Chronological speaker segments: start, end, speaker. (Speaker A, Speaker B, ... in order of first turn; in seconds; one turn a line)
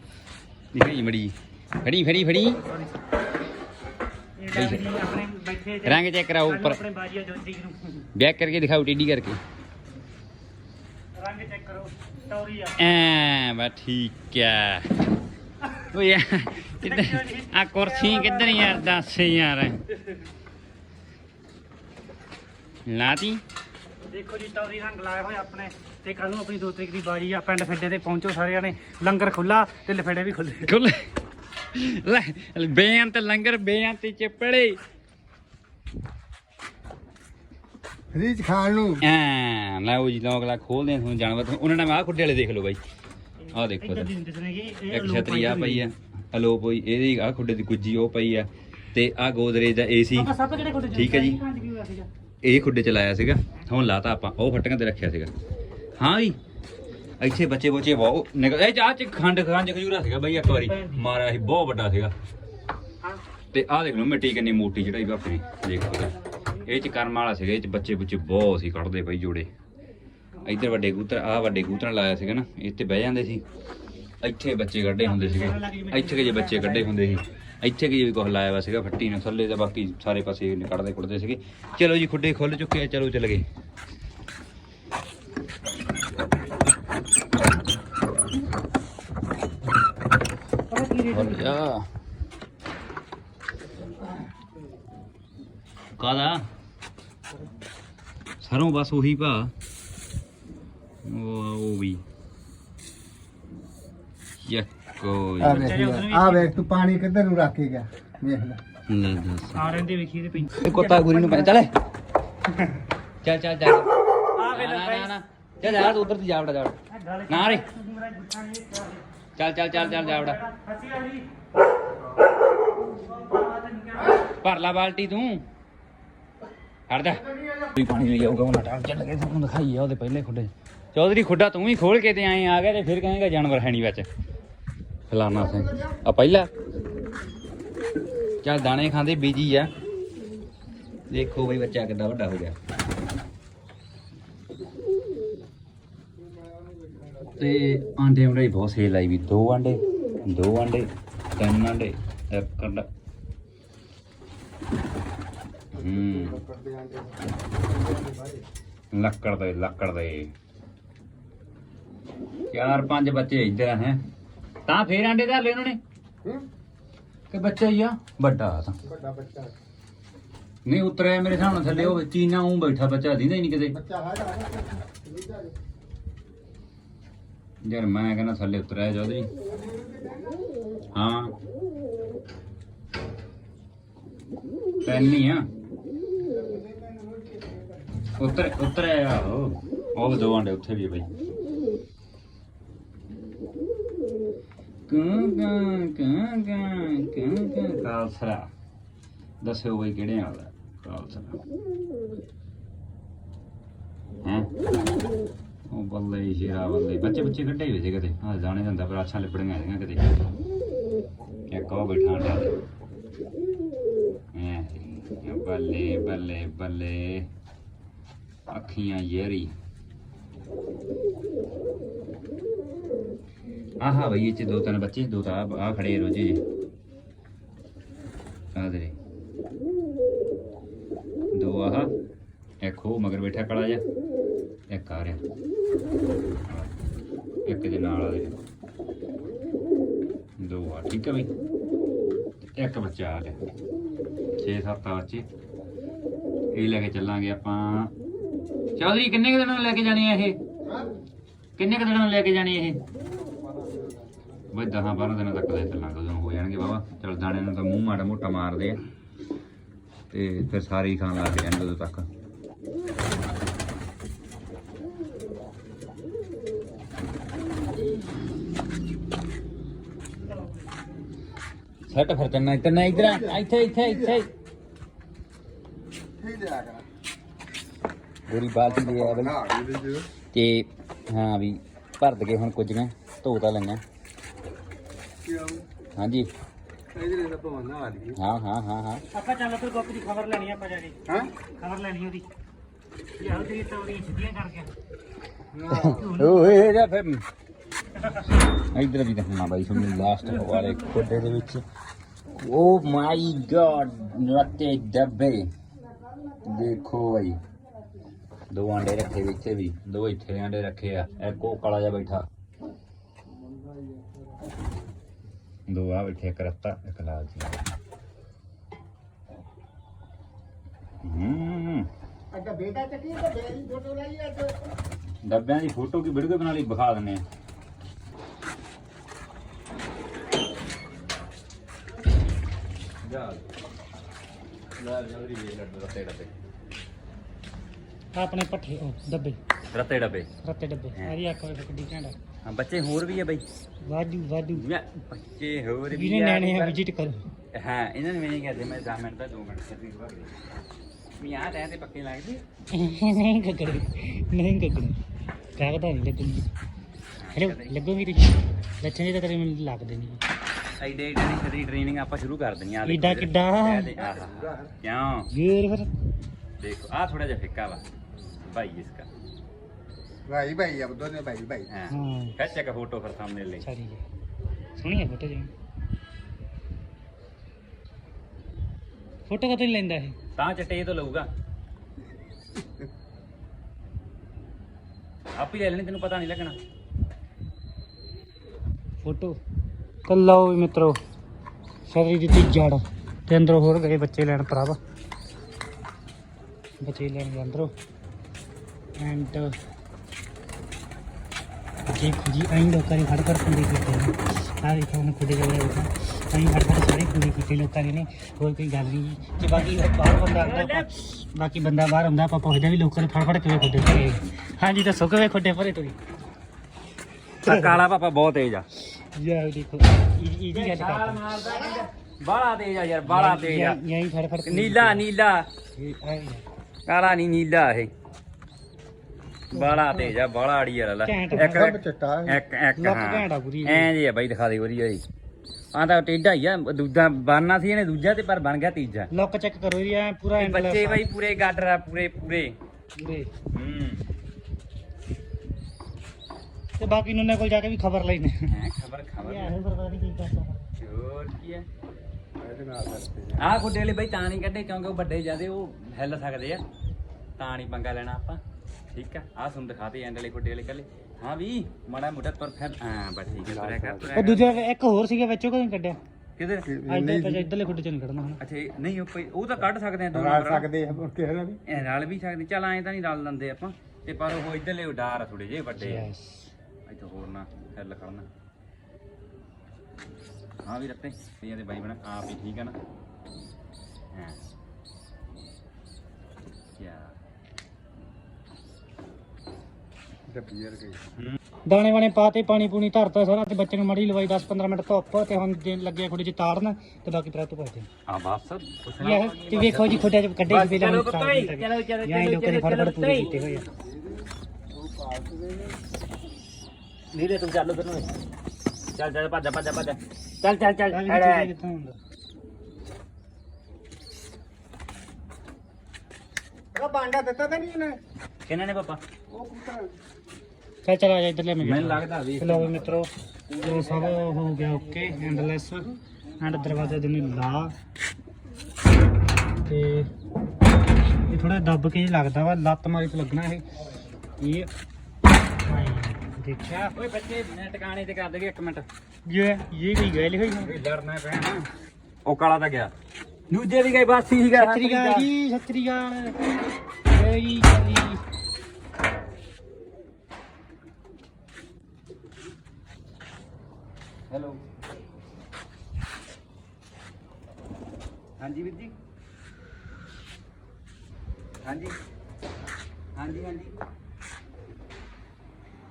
Speaker A: 0.7-2.6
Speaker B: 2.5-3.0
Speaker B: 4.4-8.1
Speaker A: 4.5-4.9
Speaker A: 5.8-6.8
Speaker A: 8.1-9.4
Speaker B: 11.2-12.8
Speaker A: 12.8-15.0
Speaker A: 15.7-19.8
Speaker B: 16.8-18.9
Speaker A: 22.9-23.4
Speaker B: 24.1-30.7
Speaker A: 30.6-31.1
Speaker A: 31.7-34.8
Speaker C: 38.1-39.0
Speaker A: 39.0-42.8
Speaker A: 43.5-44.2
Speaker B: 43.8-45.9
Speaker A: 44.9-50.3
Speaker B: 50.1-52.1
Speaker A: 50.9-51.4
Speaker A: 52.4-55.3
Speaker A: 56.0-56.4
Speaker A: 57.2-62.1
Speaker B: 60.4-61.0
Speaker A: 63.5-69.5
Speaker A: 70.4-73.4
Speaker A: 74.2-83.4
Speaker B: 75.0-77.0
Speaker B: 90.7-91.7
Speaker A: 91.1-91.8
Speaker A: 96.0-96.5
Speaker A: 98.4-99.5
Speaker A: 101.0-102.0
Speaker A: 104.4-105.8
Speaker C: 105.4-108.6
Speaker B: 105.4-106.5
Speaker A: 108.9-109.8
Speaker B: 109.5-111.6
Speaker A: 110.5-111.8
Speaker A: 113.2-116.8
Speaker B: 114.3-115.1
Speaker B: 116.9-119.0
Speaker A: 117.3-117.7
Speaker A: 119.4-120.4
Speaker B: 119.7-121.3
Speaker B: 123.0-124.2
Speaker A: 124.4-125.4
Speaker A: 126.9-134.1
Speaker A: 135.1-136.5
Speaker A: 138.4-139.7
Speaker A: 141.1-142.6
Speaker C: 146.3-147.4
Speaker A: 147.4-152.9
Speaker C: 155.7-158.4
Speaker A: 155.7-156.4
Speaker A: 158.9-160.3
Speaker A: 162.5-164.0
Speaker A: 164.7-165.8
Speaker A: 167.3-168.8
Speaker C: 168.8-169.5
Speaker A: 170.7-173.8
Speaker C: 173.7-175.5
Speaker A: 177.6-179.3
Speaker C: 179.8-180.3
Speaker A: 180.9-181.3
Speaker A: 184.8-185.5
Speaker C: 186.4-187.4
Speaker A: 188.2-191.1
Speaker A: 194.9-198.5
Speaker A: 199.4-201.4
Speaker A: 204.2-204.5
Speaker A: 205.7-210.1
Speaker A: 211.5-212.5
Speaker A: 214.3-217.3
Speaker A: 218.5-219.5
Speaker A: 223.8-226.4
Speaker A: 228.5-228.9
Speaker A: 231.3-231.9
Speaker A: 232.6-233.8
Speaker A: 234.7-235.2
Speaker A: 236.5-236.7
Speaker A: 237.4-238.3
Speaker A: 240.4-241.3
Speaker A: 242.6-243.4
Speaker A: 244.4-245.2
Speaker A: 246.5-247.9
Speaker A: 248.8-250.4
Speaker A: 251.6-252.8
Speaker C: 253.2-254.3
Speaker A: 254.5-258.8
Speaker A: 260.1-262.1
Speaker A: 271.9-274.3
Speaker C: 273.0-273.9
Speaker C: 276.2-276.9
Speaker A: 278.3-279.4
Speaker C: 278.6-280.1
Speaker A: 280.3-283.8
Speaker C: 285.2-285.6
Speaker A: 285.9-286.3
Speaker C: 286.9-288.2
Speaker A: 288.1-289.0
Speaker B: 289.1-292.2
Speaker C: 291.1-291.3
Speaker B: 293.2-294.7
Speaker C: 295.5-296.1
Speaker A: 295.7-297.2
Speaker B: 296.0-296.5
Speaker A: 298.5-301.6
Speaker A: 302.4-305.5
Speaker A: 306.4-307.4
Speaker A: 308.5-312.2
Speaker C: 313.5-314.4
Speaker A: 315.7-317.6
Speaker A: 321.0-321.9
Speaker C: 322.3-324.5
Speaker A: 325.2-327.2
Speaker A: 333.0-333.4
Speaker A: 334.8-336.3
Speaker B: 338.1-339.4
Speaker A: 339.7-340.3
Speaker B: 340.4-342.2
Speaker A: 342.4-343.4
Speaker B: 343.8-344.6
Speaker A: 344.5-346.8
Speaker B: 345.9-347.3
Speaker A: 347.5-350.4
Speaker A: 351.2-352.4
Speaker B: 352.7-355.0
Speaker B: 355.6-356.5
Speaker A: 357.2-357.7
Speaker B: 357.3-360.2
Speaker A: 360.8-365.3
Speaker B: 362.8-363.9
Speaker C: 364.0-364.7
Speaker B: 365.3-365.9
Speaker A: 366.6-367.8
Speaker A: 368.4-369.1
Speaker C: 370.2-371.7
Speaker A: 371.7-373.6
Speaker B: 371.9-372.3
Speaker B: 373.6-374.0
Speaker B: 374.8-375.5
Speaker B: 379.3-380.1
Speaker A: 380.4-381.3
Speaker A: 385.3-386.6
Speaker B: 389.0-389.4
Speaker B: 390.1-391.0
Speaker B: 391.9-394.8
Speaker B: 396.8-397.7
Speaker B: 399.0-399.6
Speaker B: 401.9-415.9
Speaker A: 410.2-410.9
Speaker A: 417.4-418.7
Speaker B: 417.4-417.8
Speaker B: 419.1-421.2
Speaker A: 420.5-423.8
Speaker B: 423.1-425.0
Speaker A: 424.4-425.5
Speaker B: 425.8-426.4
Speaker A: 426.9-427.9
Speaker A: 429.5-435.0
Speaker B: 429.5-430.1
Speaker B: 431.1-431.7
Speaker C: 431.4-432.4
Speaker B: 432.8-433.9
Speaker A: 435.7-439.1
Speaker B: 439.1-441.0
Speaker A: 440.4-442.5
Speaker B: 443.0-443.3
Speaker A: 443.5-444.0
Speaker B: 446.8-448.5
Speaker A: 448.5-449.6
Speaker B: 449.2-450.7
Speaker A: 450.8-451.7
Speaker C: 452.4-453.5
Speaker A: 453.4-456.6
Speaker A: 457.4-458.4
Speaker A: 458.9-464.6
Speaker C: 463.3-464.2
Speaker B: 464.1-466.0
Speaker A: 466.4-466.7
Speaker C: 466.6-467.5
Speaker B: 466.9-468.4
Speaker A: 468.4-470.7
Speaker C: 470.1-471.6
Speaker A: 471.6-476.1
Speaker B: 475.8-476.5
Speaker A: 476.9-478.3
Speaker A: 480.6-482.8
Speaker A: 484.1-484.4
Speaker A: 486.8-487.2
Speaker C: 490.3-491.0
Speaker B: 491.7-497.9
Speaker A: 498.1-503.4
Speaker B: 499.0-503.7
Speaker C: 503.4-504.2
Speaker C: 504.7-505.8
Speaker A: 507.1-508.1
Speaker A: 508.9-511.5
Speaker B: 510.9-512.0
Speaker C: 516.7-518.0
Speaker A: 518.5-519.0
Speaker C: 519.3-519.9
Speaker B: 520.8-527.7
Speaker A: 521.6-525.5
Speaker A: 526.6-526.9
Speaker B: 529.6-530.1
Speaker B: 531.3-533.6
Speaker B: 534.4-534.7
Speaker B: 535.6-536.9
Speaker A: 536.9-538.9
Speaker B: 539.2-540.7
Speaker A: 540.6-541.7
Speaker A: 542.2-542.9
Speaker A: 543.5-545.3
Speaker B: 544.5-546.4
Speaker A: 547.1-548.2
Speaker A: 554.3-554.6
Speaker A: 558.4-558.9
Speaker A: 561.6-561.9
Speaker A: 563.1-563.7